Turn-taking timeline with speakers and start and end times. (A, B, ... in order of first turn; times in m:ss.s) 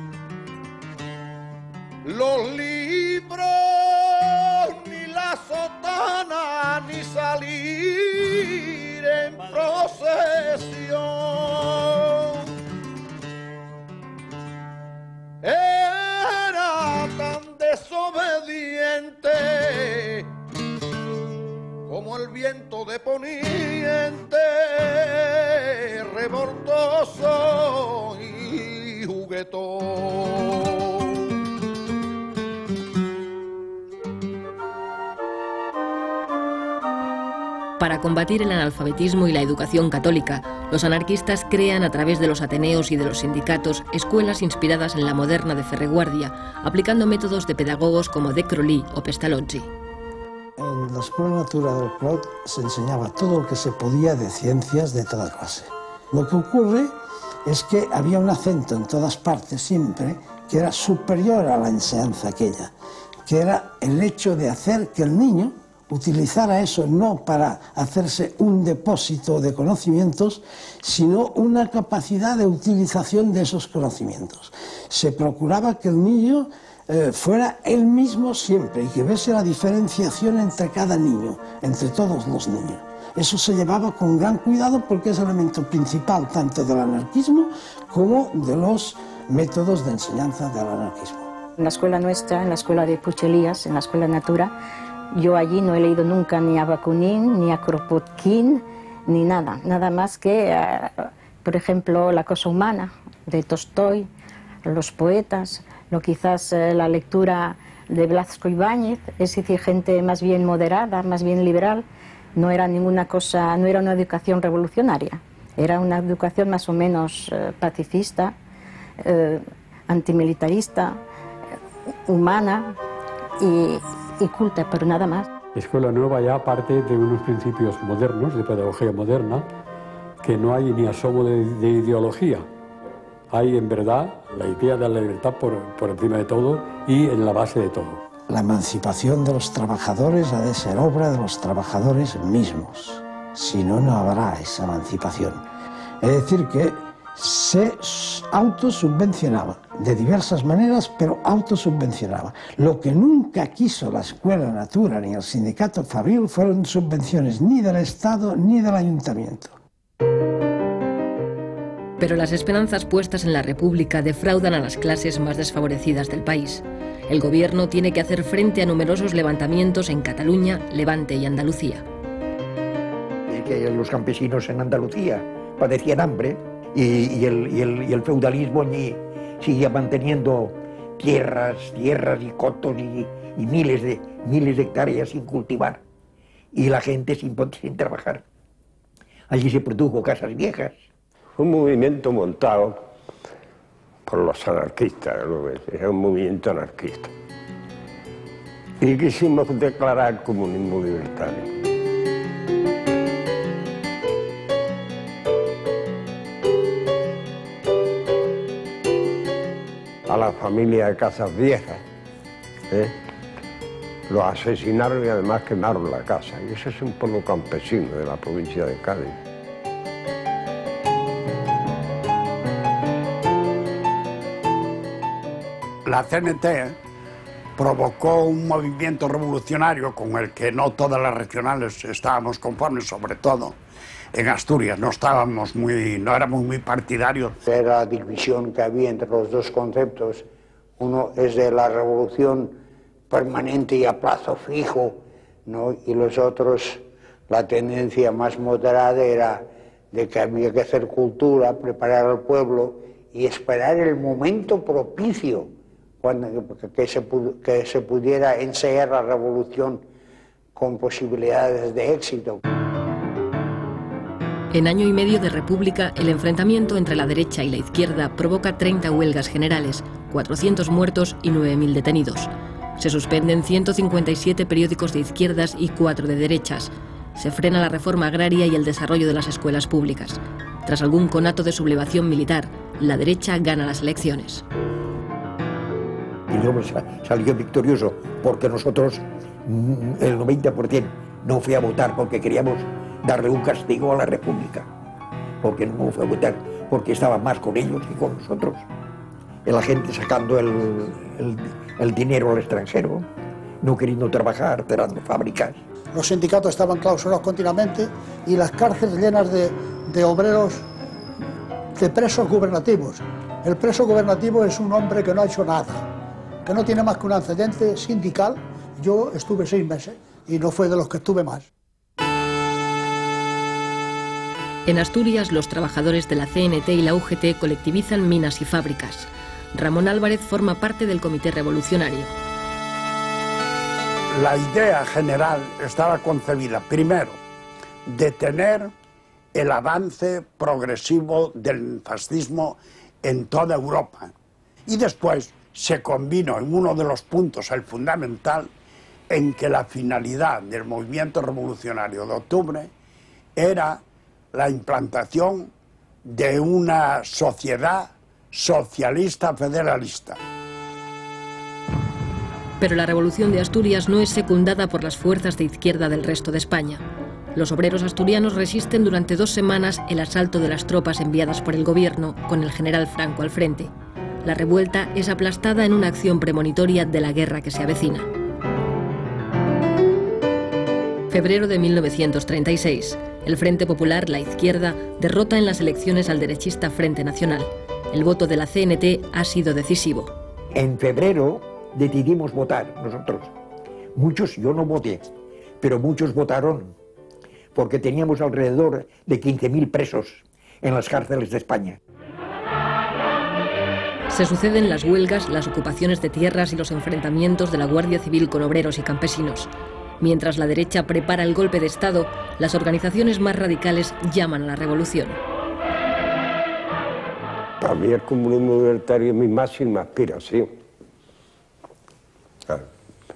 0:02.0-0:12.4 A
0:15.4-0:20.3 A
0:21.9-0:31.2 A
0:37.8-0:49.7 B
0:50.6-1:02.7 C
1:03.3-1:31.3 C
1:31.6-1:34.5 D
1:35.1-1:44.1 D
1:44.7-1:51.8 D
1:52.4-1:58.4 D
1:59.0-2:01.0 D
2:02.1-2:02.8 D
2:03.4-2:05.3 D
2:05.6-2:09.5 E
2:10.2-2:12.4 E
2:13.3-2:18.0 E
2:18.3-2:25.4 C
2:26.0-2:39.6 C
2:42.0-2:51.8 B
2:53.3-3:05.8 F
3:06.5-3:08.2 F
3:09.3-3:10.8 F
3:11.4-3:12.8 G
3:14.1-3:17.1 G
3:18.8-3:21.5 G
3:30.1-3:31.8 G
3:34.1-3:39.2 G
3:45.8-3:46.8 H
3:47.6-3:53.6 H
3:54.1-3:57.4 H
3:57.5-4:00.2 I
4:00.8-4:02.6 I
4:03.1-4:15.5 I
4:16.0-4:19.8 I
4:20.6-4:22.4 I
4:24.5-4:44.4 B
4:46.3-4:54.7 F
4:55.4-4:58.7 F
4:59.4-5:03.1 F
5:03.6-5:05.6 F
5:05.9-5:10.6 J
5:11.8-5:15.9 J
5:16.5-5:21.5 J
5:24.7-5:32.1 B
5:34.1-5:37.2 H
5:37.9-5:38.7 H
5:39.3-5:44.1 H
5:44.7-5:48.5 H
5:49.1-5:52.7 H
5:53.4-5:53.8 H
5:54.3-5:55.5 H
5:56.0-6:00.2 H
6:02.6-6:06.8 B
6:07.4-6:13.7 B
6:14.2-6:18.1 B
6:21.1-6:30.1 B
6:30.5-6:33.3 F
6:34.0-6:35.1 F
6:35.6-6:36.7 F
6:37.6-6:41.8 F
6:44.1-6:55.2 B
6:57.6-7:00.5 G